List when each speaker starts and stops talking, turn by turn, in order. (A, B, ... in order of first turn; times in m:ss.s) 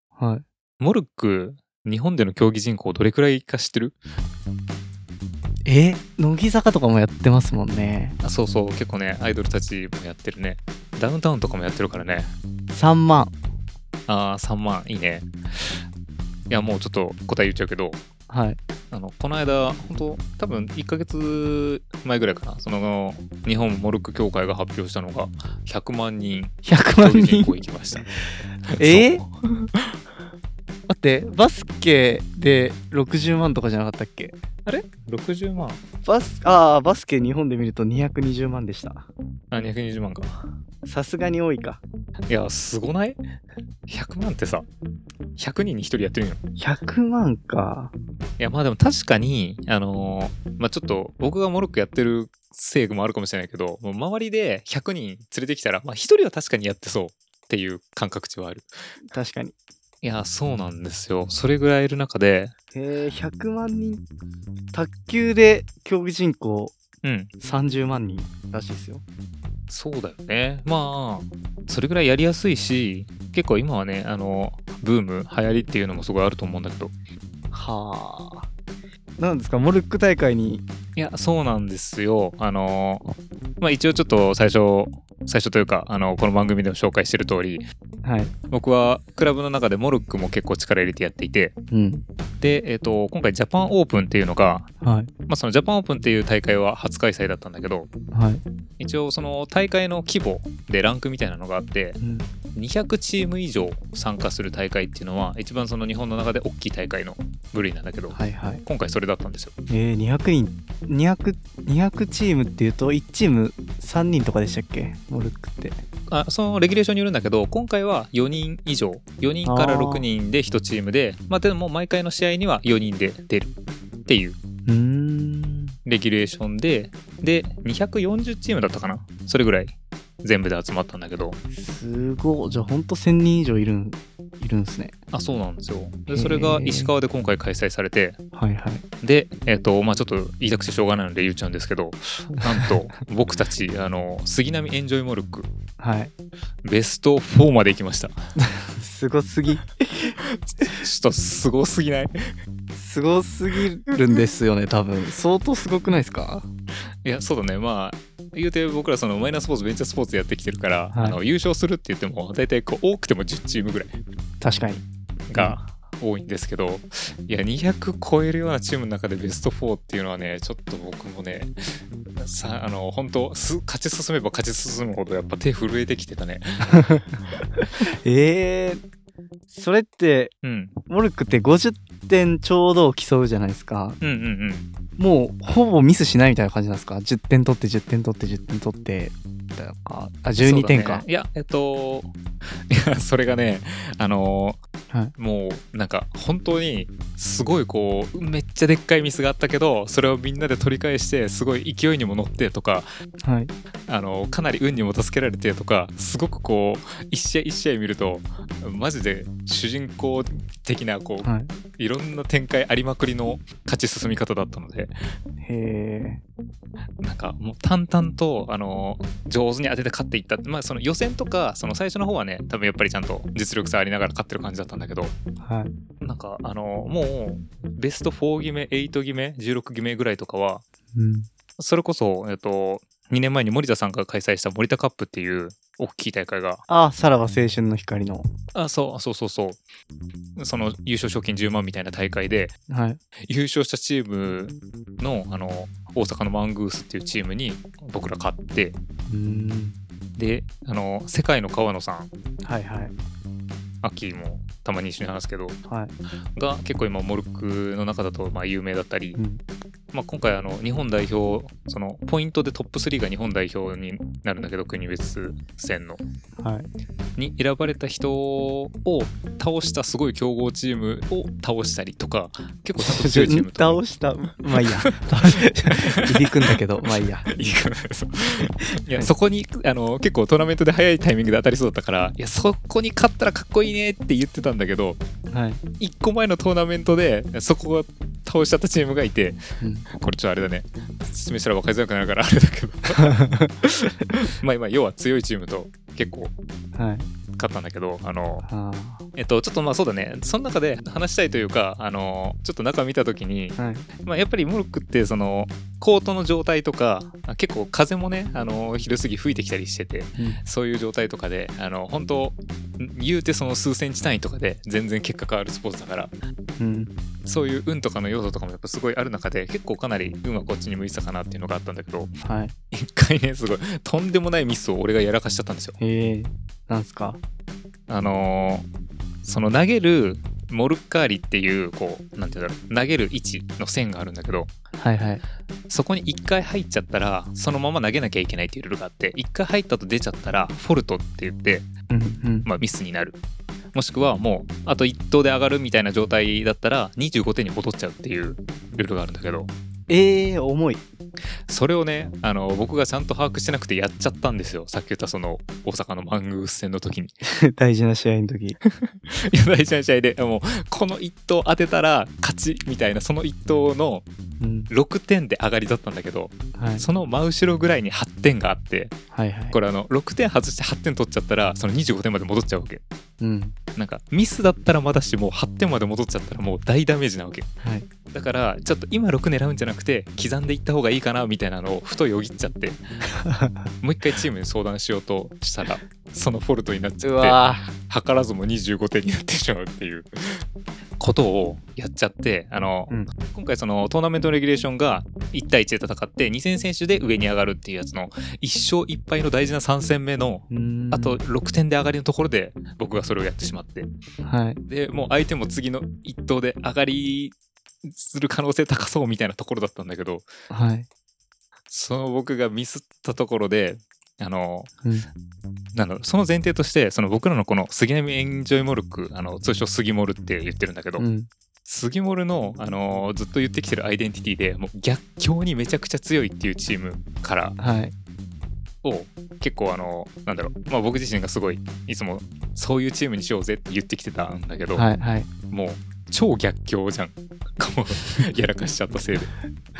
0:00.2-0:00.4 A
0:00.8-0:04.0 B
0:05.6-0:08.2 A
0:08.2-0:12.3 B
0:12.7-0:13.3 A
0:14.1-0:15.3 B
0:16.5-0:18.0 B
0:18.3-0:18.6 A
0:18.9-0:28.1 B
0:26.6-0:27.5 A
0:28.7-0:29.3 B
0:28.7-0:29.2 A
0:30.9-0:34.4 A
0:34.6-0:35.8 B
0:36.0-0:39.0 A
0:39.5-0:40.3 B
0:40.8-0:41.8 A
0:42.3-0:43.2 B
0:43.9-0:44.7 B
0:45.4-0:46.4 B
0:46.6-0:47.9 A
0:48.4-0:58.7 B
0:59.1-0:59.5 A
1:00.0-1:02.5 B
1:02.7-1:04.0 A
1:04.7-1:06.7 A
1:07.0-1:07.3 B
1:07.4-1:09.0 A
1:09.7-1:16.9 B
1:17.5-1:18.5 A
1:19.2-1:20.6 A
1:21.0-1:27.6 B
1:28.0-1:28.3 A
1:28.5-1:31.5 B
1:31.7-1:32.0 A
1:32.4-1:34.7 B
1:34.8-1:35.1 A
1:35.3-1:37.9 B
1:38.1-1:38.4 A
1:38.8-1:42.0 B
1:42.0-1:42.3 A
1:42.6-1:49.5 B
1:48.1-1:48.6 A
1:49.7-1:55.8 A
1:56.1-2:04.4 B
1:59.4-2:00.1 A
2:04.6-2:05.7 A
2:05.8-2:11.4 B
2:11.5-2:14.9 A
2:15.1-2:18.2 B
2:16.1-2:16.9 A
2:18.3-2:18.8 A
2:19.0-2:25.5 B
2:25.8-2:26.1 A
2:26.6-2:28.2 B
2:28.4-2:30.2 A
2:30.2-2:32.2 B
2:32.7-2:36.4 A
2:37.0-2:43.9 B
2:40.9-2:41.2 A
2:44.4-2:45.6 A
2:45.3-2:51.6 B
2:52.2-2:56.8 B
2:56.8-2:58.8 A
2:59.5-3:00.3 A
3:00.4-3:00.7 B
3:00.9-3:04.0 A
3:04.0-3:04.7 B
3:05.0-3:11.0 A
3:10.4-3:12.1 B
3:12.7-3:14.6 B
3:15.2-3:22.9 B
3:23.2-3:23.5 A
3:23.9-3:34.9 B
3:31.2-3:31.5 A
3:35.4-3:36.2 A
3:37.0-3:45.1 B
3:45.4-3:45.7 A
3:46.0-3:50.6 B
3:50.9-3:51.3 A
3:51.6-3:56.6 B
3:56.7-3:58.2 A
3:58.5-3:59.6 B
4:00.4-4:02.5 B
4:02.7-4:03.0 A
4:03.3-4:08.8 B
4:09.1-4:09.8 A
4:10.2-4:12.1 B
4:12.4-4:12.9 A
4:13.8-4:15.6 B
4:15.7-4:15.9 A
4:16.4-4:19.2 B
4:19.2-4:19.4 A
4:19.9-4:26.0 B
4:26.4-4:26.7 A
4:27.2-4:33.8 B
4:32.8-4:37.3 A
4:37.2-4:45.0 B
4:45.3-4:45.6 A
4:45.8-4:49.4 B
4:49.6-4:49.8 A
4:49.9-4:56.3 B
4:53.0-4:53.5 A
4:56.8-4:57.1 A
4:57.4-4:58.4 B
4:58.4-4:59.0 A
4:59.1-5:16.1 B
5:03.6-5:03.9 A
5:16.6-5:16.9 A
5:17.2-5:22.1 B
5:22.2-5:22.5 A
5:22.7-5:25.8 B
5:25.8-5:27.2 A
5:27.9-5:28.6 B
5:29.2-5:34.5 B
5:34.8-5:35.2 A
5:35.7-5:41.7 B
5:41.9-5:42.5 A
5:42.4-5:43.2 B
5:43.7-5:49.5 B
5:49.9-5:50.8 A
5:51.5-5:57.1 B
5:57.4-5:58.6 A
5:58.7-6:04.0 B
6:04.4-6:04.7 A
6:04.7-6:08.9 B
6:06.5-6:06.9 A
6:09.1-6:09.6 A
6:09.5-6:12.8 B
6:13.2-6:13.5 A
6:13.8-6:17.5 B
6:17.6-6:17.9 A
6:18.1-6:22.8 B
6:23.2-6:23.7 A
6:23.8-6:30.4 B
6:27.0-6:27.7 A
6:31.0-6:43.9 B
6:40.5-6:41.2 A
6:44.2-6:44.6 A
6:44.7-6:50.2 B
6:50.5-6:50.9 A
6:51.7-6:54.7 B
6:55.7-7:01.0 B
7:01.0-7:01.3 A
7:01.6-7:07.6 B
7:07.6-7:07.9 A
7:08.8-7:14.9 B
7:14.8-7:15.3 A
7:15.5-7:19.3 B